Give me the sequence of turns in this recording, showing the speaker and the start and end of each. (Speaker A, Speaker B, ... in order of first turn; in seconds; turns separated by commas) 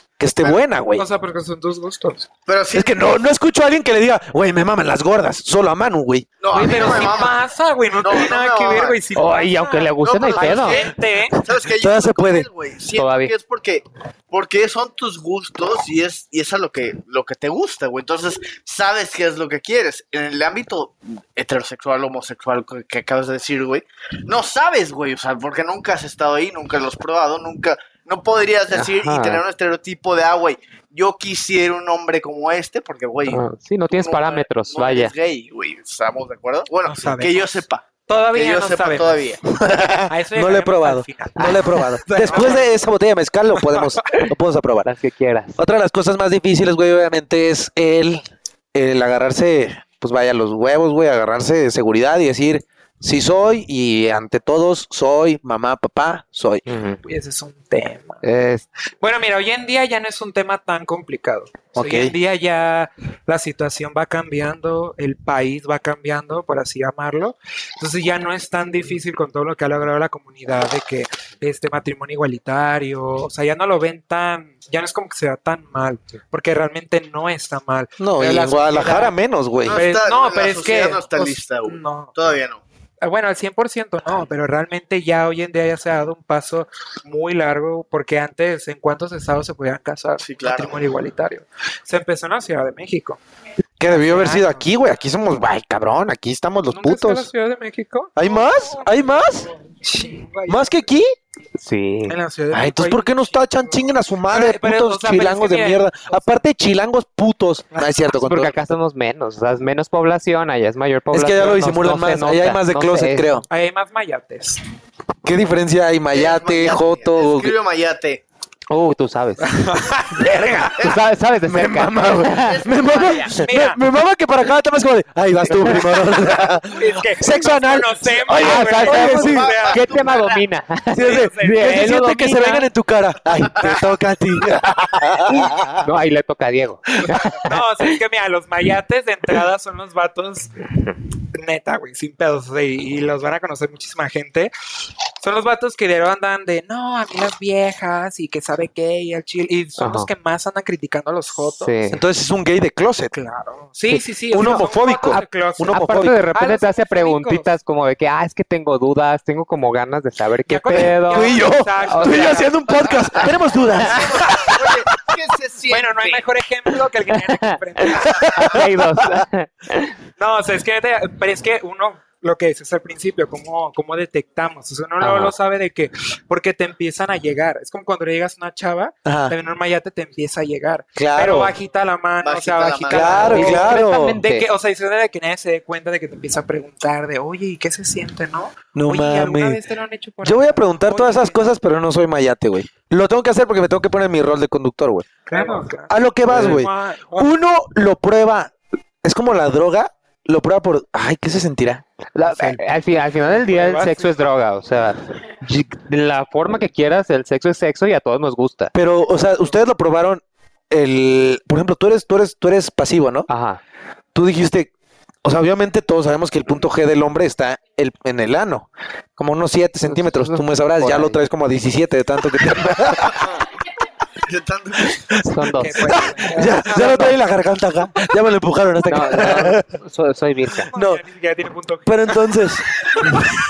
Speaker A: 0.2-1.1, Speaker B: 0.5-2.2, Speaker C: 2.5-3.0, Speaker A: 2.7-6.3, Speaker C: 6.4-7.4, Speaker B: 6.5-11.3, Speaker C: 8.0-9.0, Speaker D: 9.1-10.8, Speaker C: 10.0-39.5, Speaker A: 11.6-12.5, Speaker D: 12.9-13.3, Speaker D: 28.7-29.4, Speaker D: 33.3-35.1, Speaker B: 36.9-37.5, Speaker B: 38.1-39.2, Speaker A: 39.5-44.9, Speaker B: 40.1-42.7, Speaker D: 44.8-45.6, Speaker A: 45.6-56.6, Speaker D: 56.7-57.0, Speaker B: 57.0-58.2, Speaker D: 58.2-58.6, Speaker B: 59.0-79.1, Speaker A: 61.7-62.1, Speaker A: 78.0-79.8, Speaker C: 79.6-82.6, Speaker B: 79.7-82.1, Speaker B: 83.0-93.2, Speaker C: 90.2-90.8, Speaker A: 93.8-97.3, Speaker B: 93.9-94.7, Speaker B: 96.7-99.1, Speaker A: 98.2-99.5, Speaker B: 99.7-100.8, Speaker A: 100.5-101.1, Speaker D: 101.6-102.2, Speaker B: 102.1-106.3, Speaker A: 102.5-108.7, Speaker D: 108.1-113.3, Speaker A: 111.1-113.4, Speaker B: 113.5-114.6, Speaker A: 115.2-117.5, Speaker C: 116.1-118.2, Speaker D: 118.7-119.6, Speaker B: 119.4-120.2, Speaker A: 120.1-129.5, Speaker D: 120.8-122.7, Speaker C: 122.2-123.4, Speaker B: 123.3-123.8, Speaker B: 126.6-129.9, Speaker D: 128.3-132.7, Speaker C: 128.8-130.4, Speaker A: 130.9-135.9, Speaker B: 130.9-131.9, Speaker C: 133.5-133.8, Speaker D: 135.4-137.6, Speaker B: 137.4-140.6, Speaker B: 141.3-144.5, Speaker B: 145.2-151.7, Speaker D: 149.8-150.1, Speaker D: 151.6-152.0, Speaker A: 151.9-153.1, Speaker B: 153.1-155.8, Speaker D: 153.9-154.5, Speaker A: 154.3-156.2, Speaker D: 155.1-162.4, Speaker B: 156.3-157.5, Speaker B: 160.4-162.6, Speaker A: 161.1-164.8, Speaker C: 163.2-166.2, Speaker B: 165.7-168.5, Speaker D: 167.3-169.9, Speaker A: 168.1-169.2, Speaker B: 170.2-191.5, Speaker D: 175.0-175.3, Speaker A: 179.0-179.3, Speaker A: 180.9-181.5, Speaker C: 182.2-183.6, Speaker A: 182.9-184.2, Speaker D: 183.2-184.4, Speaker A: 188.7-189.6, Speaker A: 190.2-195.1, Speaker B: 195.3-197.3, Speaker A: 195.9-198.5, Speaker A: 199.0-201.8, Speaker D: 202.1-208.7, Speaker B: 202.2-204.2, Speaker A: 208.7-213.3, Speaker D: 213.3-213.6, Speaker A: 214.1-214.7, Speaker A: 215.2-223.3, Speaker D: 219.9-221.2, Speaker C: 223.1-223.4, Speaker C: 224.2-225.2, Speaker D: 225.2-226.1, Speaker B: 225.5-227.0, Speaker A: 225.8-229.7, Speaker D: 226.6-227.1, Speaker D: 228.9-230.7, Speaker B: 230.6-232.3, Speaker A: 230.7-231.0, Speaker A: 231.9-233.1